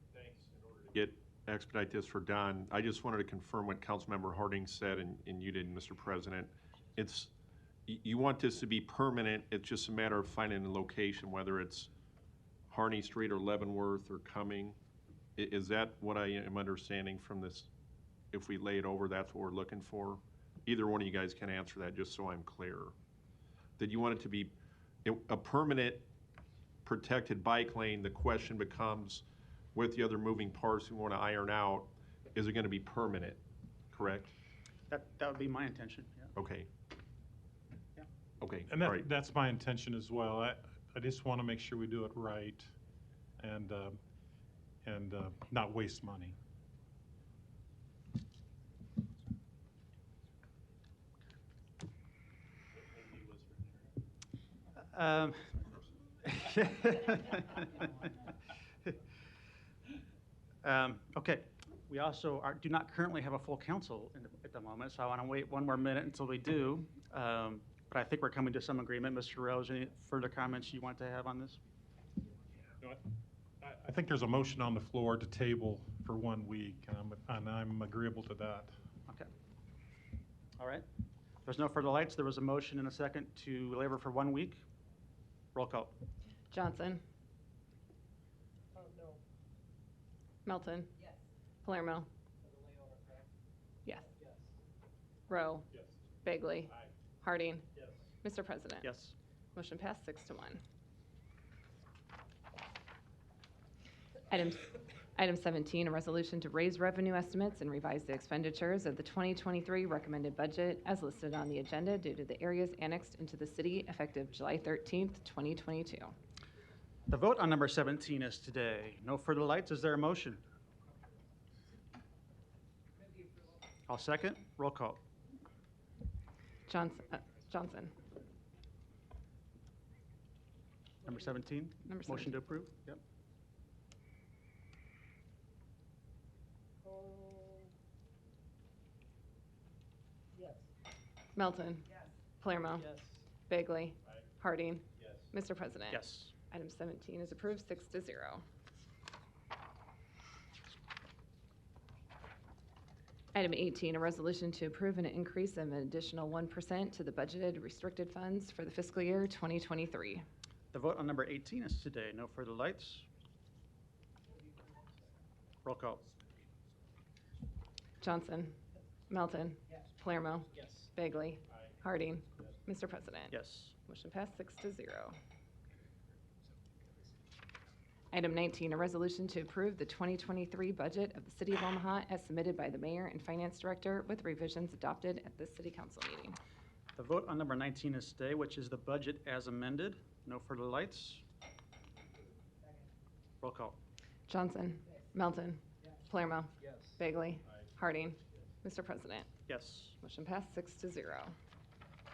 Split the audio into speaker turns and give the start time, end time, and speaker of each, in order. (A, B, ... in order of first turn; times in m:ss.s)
0:00.1-0:07.3 A
0:07.9-0:11.9 A
0:12.7-0:14.8 A
0:15.4-0:17.7 A
0:18.3-0:22.9 A
0:23.8-0:24.5 A
0:25.0-0:26.1 A
0:26.8-0:33.4 A
0:33.9-0:34.3 A
0:34.9-0:36.3 B
0:36.4-0:36.7 A
0:38.4-0:39.1 A
0:38.7-0:42.7 C
0:43.4-0:44.0 C
0:44.8-0:46.4 C
0:54.9-0:55.7 B
0:56.2-0:58.3 B
1:00.6-1:11.6 B
1:13.6-1:18.7 C
1:20.6-1:20.9 B
1:21.4-1:24.6 B
1:25.6-1:26.0 B
1:26.5-1:27.0 D
1:30.4-1:30.9 D
1:31.6-1:32.1 D
1:35.3-1:35.7 D
1:36.2-1:37.6 D
1:38.2-1:38.9 D
1:38.8-1:39.1 B
1:39.6-1:40.6 D
1:44.3-1:56.1 D
1:57.1-2:00.4 B
2:03.9-2:05.0 B
2:06.7-2:07.9 D
2:11.0-2:13.0 B
2:11.9-2:12.4 D
2:21.4-2:21.9 D
2:22.4-2:23.0 D
2:23.5-2:28.4 D
2:25.9-2:26.3 B
2:33.4-2:40.2 D
2:40.7-2:43.1 B
2:45.6-2:46.2 B
2:48.0-2:48.6 D
2:49.1-2:55.2 D
2:53.3-2:53.7 B
2:58.1-3:06.4 D
3:07.0-3:11.2 B
3:13.4-3:13.8 B
3:14.3-3:19.3 D
3:19.5-3:20.0 B
3:20.0-3:21.3 D